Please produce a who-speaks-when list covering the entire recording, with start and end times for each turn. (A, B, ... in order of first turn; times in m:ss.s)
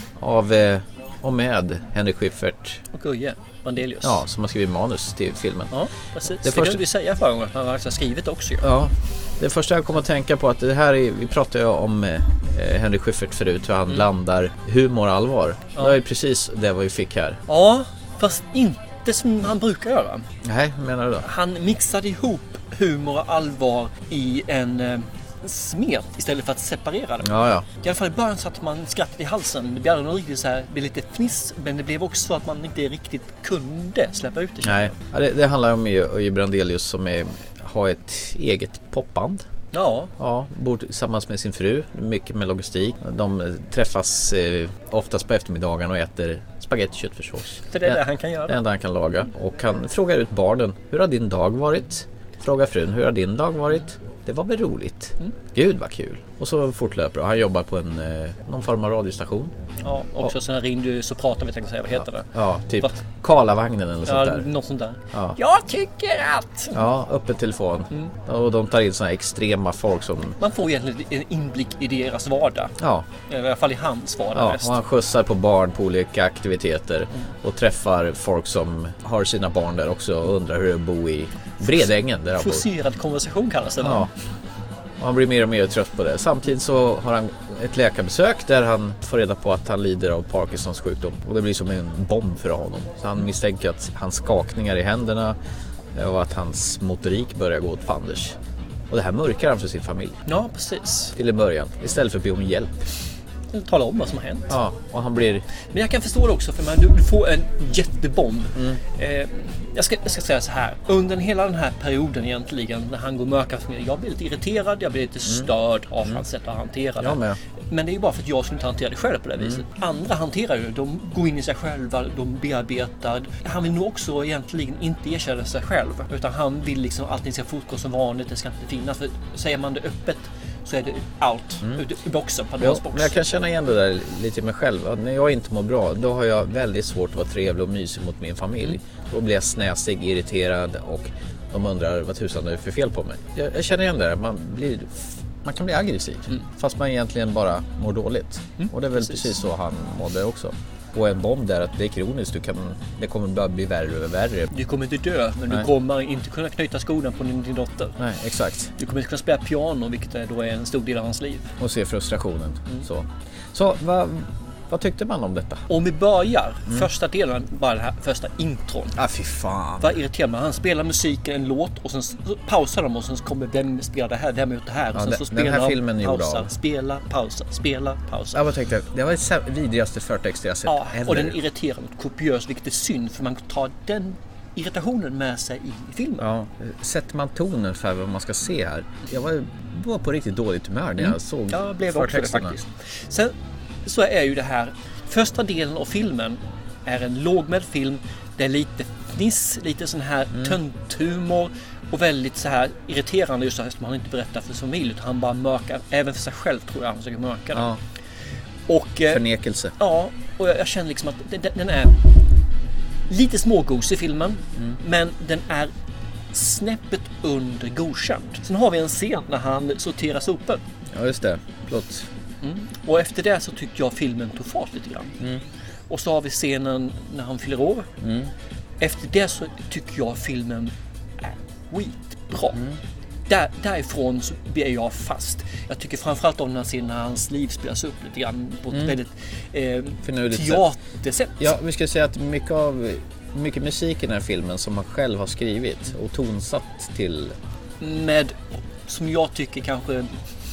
0:00.2-0:02.8 A
0:02.9-0:04.2 B
0:04.0-0:05.8 A
0:05.7-0:08.7 B
0:06.4-0:06.8 A
0:08.6-0:17.4 A
0:17.5-0:20.3 B
0:20.4-0:21.3 A
0:21.2-0:35.0 B
0:27.2-0:27.6 A
0:34.6-0:39.4 A
0:39.7-0:40.1 B
0:40.2-0:59.5 A
0:47.7-0:48.6 B
0:59.8-1:03.0 B
1:02.3-1:04.5 A
1:04.0-1:06.8 B
1:05.1-1:05.4 A
1:06.7-1:10.4 A
1:10.4-1:14.8 B
1:12.8-1:13.1 A
1:14.3-1:22.7 A
1:22.3-1:24.1 B
1:23.8-1:24.1 A
1:25.0-1:35.4 A
1:35.9-1:38.4 A
1:38.9-1:40.2 A
1:40.2-1:41.1 B
1:41.1-1:42.9 A
1:43.5-1:44.6 B
1:44.5-1:45.5 A
1:45.7-2:13.2 B
1:57.0-1:57.4 A
2:12.6-2:34.5 A
2:28.6-2:29.3 B
2:34.5-2:38.0 B
2:38.0-2:38.7 A
2:38.8-2:41.5 B
2:41.6-2:45.6 A
2:45.7-2:49.0 B
2:49.0-2:50.0 A
2:49.8-2:58.4 B
2:54.9-2:56.5 A
2:58.3-3:01.4 A
3:00.6-3:06.3 B
3:06.2-3:12.6 A
3:11.0-3:27.7 B
3:27.5-3:27.8 A
3:28.7-3:29.2 B
3:29.1-3:29.7 A
3:29.8-3:32.0 B
3:33.1-3:35.7 B
3:36.3-3:40.6 B
3:40.9-3:42.1 A
3:42.4-3:45.2 B
3:45.9-3:47.9 B
3:48.0-3:48.3 A
3:48.8-3:52.6 B
3:52.5-3:52.8 A
3:53.3-4:01.5 B
4:00.0-4:00.6 A
4:01.4-4:07.4 A
4:07.8-4:10.2 B